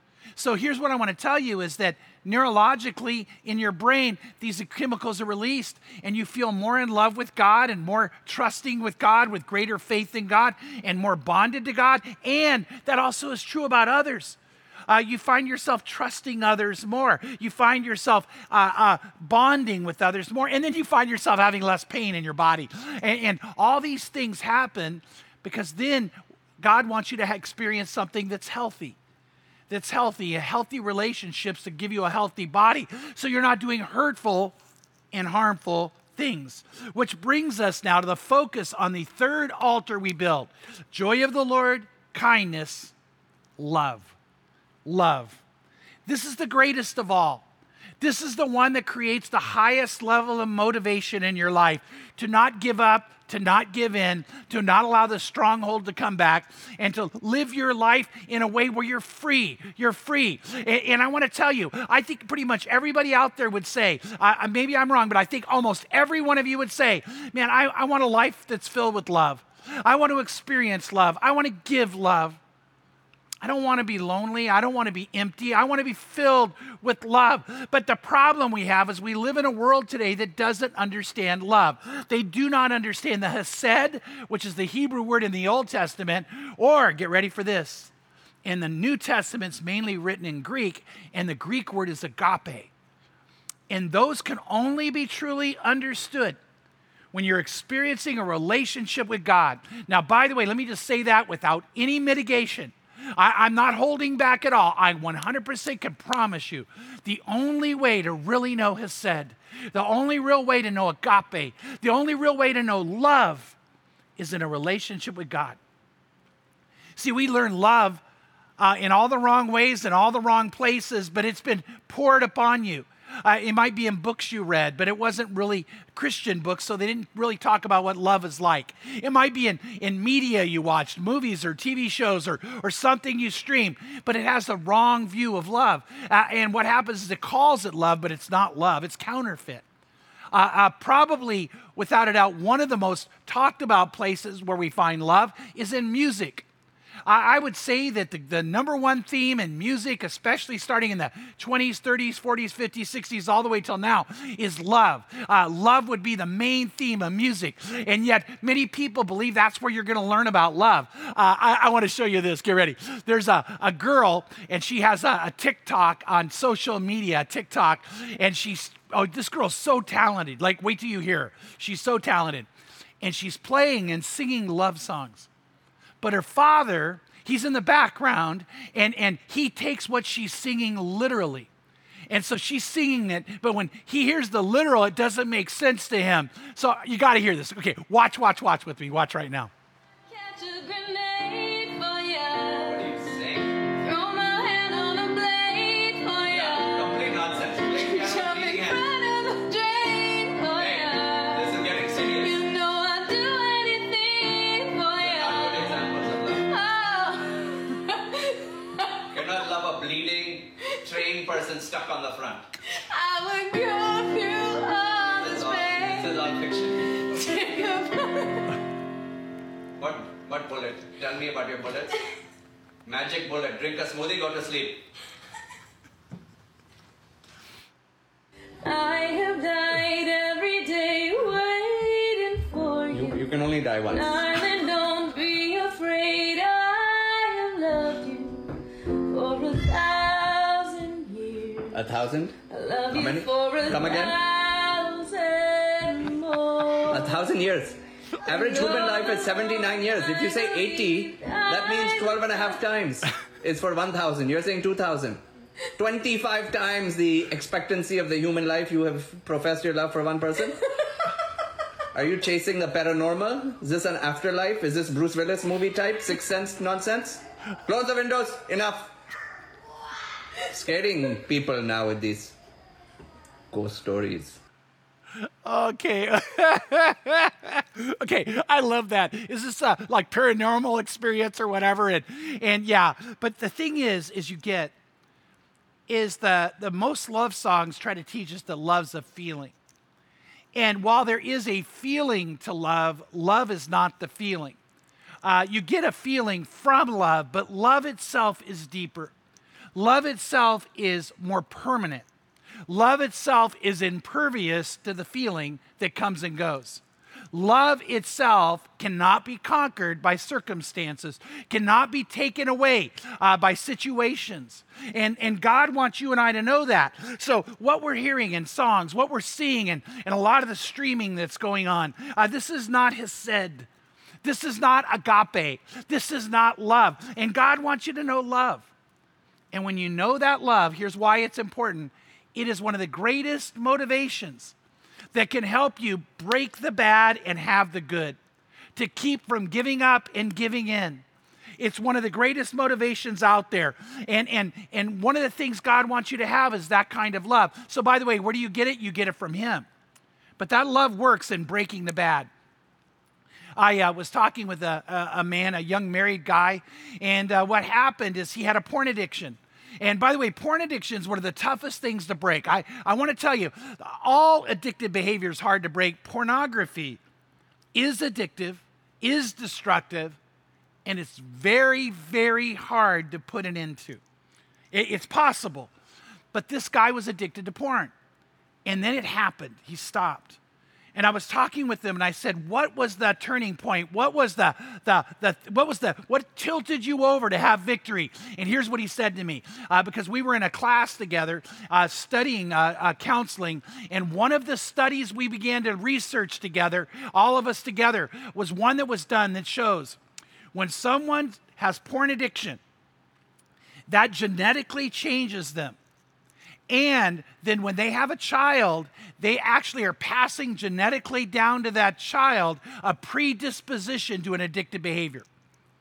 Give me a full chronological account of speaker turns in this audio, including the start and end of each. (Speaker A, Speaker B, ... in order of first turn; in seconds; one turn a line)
Speaker A: 0.4-29.0
Speaker A: 29.7-34.5
Speaker A: 35.1-42.9
Speaker A: 43.6-44.1
Speaker A: 44.9-45.4
Speaker A: 46.1-47.5
Speaker A: 48.0-72.4
Speaker A: 73.4-87.9
Speaker A: 88.5-92.7
Speaker A: 93.7-96.4
Speaker A: 97.1-113.6
Speaker A: 114.2-115.6
Speaker A: 117.0-118.0
Speaker A: 118.6-139.6
Speaker A: 140.3-146.4
Speaker A: 147.1-172.5
Speaker A: 173.0-175.3
Speaker A: 176.0-181.5
Speaker A: 182.1-189.5
Speaker B: 190.1-192.8
Speaker C: 192.7-193.6
Speaker B: 193.7-209.0
Speaker C: 196.3-198.8
Speaker C: 200.6-202.4
Speaker C: 205.0-206.5
Speaker C: 209.1-212.5
Speaker B: 212.7-216.2
Speaker C: 215.1-217.1
Speaker B: 217.1-218.6
Speaker C: 219.8-221.9
Speaker C: 222.8-224.9
Speaker B: 228.6-241.9
Speaker C: 232.9-234.4
Speaker C: 241.7-242.4
Speaker B: 242.5-247.1
Speaker C: 242.9-244.2
Speaker C: 246.9-255.2
Speaker B: 248.3-252.6
Speaker C: 255.8-260.7
Speaker C: 261.9-268.9
Speaker C: 270.4-272.4
Speaker C: 273.5-274.4
Speaker A: 275.4-284.7
Speaker A: 285.9-289.5
Speaker A: 290.5-294.6
Speaker A: 295.2-299.1
Speaker A: 299.8-302.1
Speaker A: 302.7-323.7
Speaker A: 324.2-328.7
Speaker A: 329.5-334.5
Speaker A: 335.1-338.2
Speaker A: 338.8-341.0
Speaker A: 341.6-349.7
Speaker A: 350.4-352.3
Speaker A: 353.6-367.0
Speaker A: 367.7-370.2
Speaker A: 370.9-374.0
Speaker A: 374.7-375.7
Speaker A: 376.3-377.9
Speaker A: 378.6-380.4
Speaker A: 380.9-400.0
Speaker A: 400.5-402.6
Speaker A: 403.9-405.8
Speaker A: 406.7-415.3